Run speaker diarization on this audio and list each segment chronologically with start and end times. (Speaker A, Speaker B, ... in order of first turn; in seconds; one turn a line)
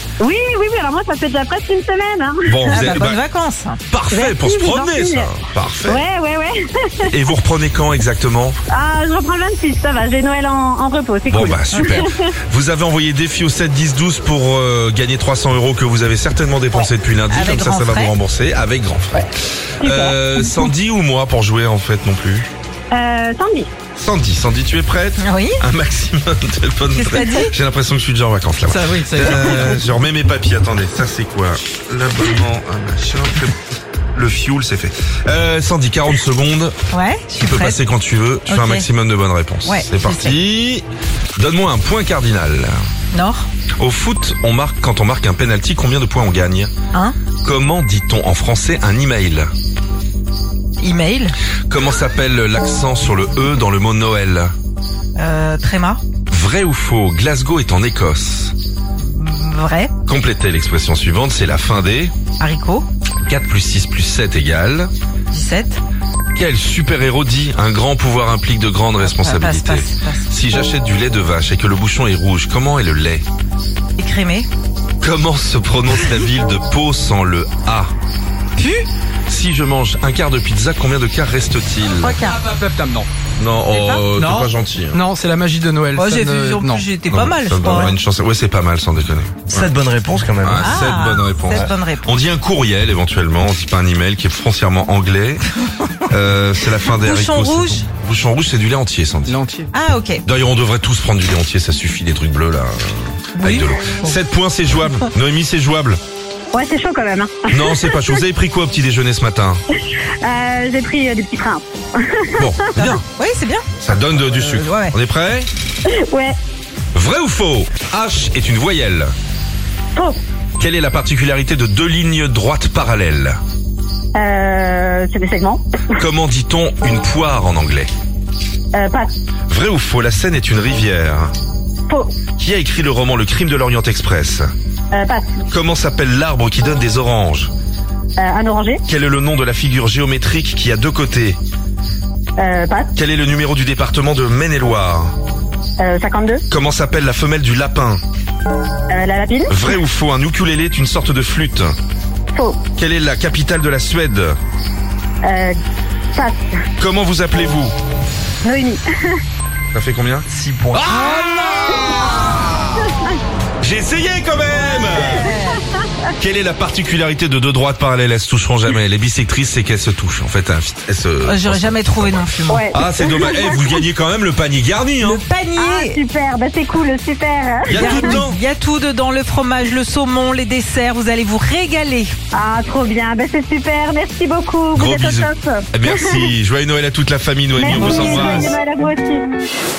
Speaker A: 0.2-3.0
Speaker B: 2.5-3.2
Speaker C: 2.7-3.8
Speaker B: 3.9-6.0
Speaker A: 4.1-5.3
Speaker A: 5.9-7.1
Speaker B: 7.0-8.6
Speaker A: 8.7-12.2
Speaker B: 11.3-22.5
Speaker C: 11.7-12.1
Speaker C: 17.3-18.1
Speaker A: 19.8-20.7
Speaker A: 22.9-23.7
Speaker B: 24.0-33.6
Speaker C: 25.2-25.6
Speaker C: 26.9-27.5
Speaker D: 28.7-29.8
Speaker B: 34.1-36.8
Speaker C: 36.9-37.8
Speaker B: 37.4-40.8
Speaker C: 38.5-38.9
Speaker C: 39.6-40.4
Speaker B: 41.4-42.8
Speaker C: 43.1-43.5
Speaker B: 43.8-46.7
Speaker B: 47.4-49.5
Speaker C: 50.8-51.4
Speaker B: 51.7-54.5
Speaker C: 55.1-56.0
Speaker B: 56.3-58.5
Speaker C: 59.0-59.9
Speaker B: 60.0-62.1
Speaker C: 62.4-62.9
Speaker B: 63.2-64.9
Speaker C: 65.3-65.8
Speaker B: 66.3-73.2
Speaker C: 69.0-70.3
Speaker C: 74.0-74.5
Speaker B: 75.0-77.9
Speaker C: 78.6-78.9
Speaker B: 79.3-82.2
Speaker C: 81.9-82.4
Speaker D: 82.4-83.1
Speaker B: 83.4-85.0
Speaker C: 83.7-84.0
Speaker D: 84.2-86.8
Speaker C: 85.9-87.9
Speaker B: 87.1-89.7
Speaker E: 89.5-90.9
Speaker B: 90.4-95.5
Speaker C: 90.6-92.1
Speaker B: 96.1-99.4
Speaker C: 97.0-97.8
Speaker D: 99.3-99.7
Speaker C: 99.7-100.2
Speaker B: 100.2-106.0
Speaker C: 103.4-104.2
Speaker A: 106.5-108.1
Speaker B: 107.5-109.6
Speaker A: 110.2-112.7
Speaker B: 112.4-113.0
Speaker C: 112.8-114.9
Speaker B: 113.8-115.5
Speaker A: 115.9-116.3
Speaker B: 116.9-119.1
Speaker B: 120.6-123.4
Speaker A: 124.1-125.6
Speaker B: 126.0-127.9
Speaker A: 128.7-129.1
Speaker B: 129.5-131.3
Speaker B: 132.4-134.5
Speaker A: 134.9-135.4
Speaker B: 135.5-137.5
Speaker A: 138.2-138.8
Speaker B: 138.9-141.4
Speaker A: 142.4-142.9
Speaker B: 142.9-145.1
Speaker A: 145.8-146.4
Speaker B: 146.5-148.0
Speaker A: 148.9-149.6
Speaker B: 149.5-151.7
Speaker A: 152.3-152.6
Speaker B: 152.8-154.3
Speaker A: 155.2-155.5
Speaker A: 156.1-156.4
Speaker B: 156.8-157.7
Speaker A: 158.4-159.2
Speaker B: 159.7-162.8
Speaker E: 160.3-160.8
Speaker C: 160.9-162.4
Speaker A: 162.8-163.1
Speaker B: 163.6-165.3
Speaker C: 164.8-165.6
Speaker A: 164.9-165.4
Speaker B: 166.2-175.2
Speaker C: 171.2-172.7
Speaker A: 172.5-173.6
Speaker C: 175.0-176.0
Speaker A: 175.6-178.2
Speaker B: 177.7-178.4
Speaker C: 177.7-182.1
Speaker A: 182.3-186.3
Speaker B: 184.7-188.5
Speaker A: 187.6-189.3
Speaker C: 187.7-188.5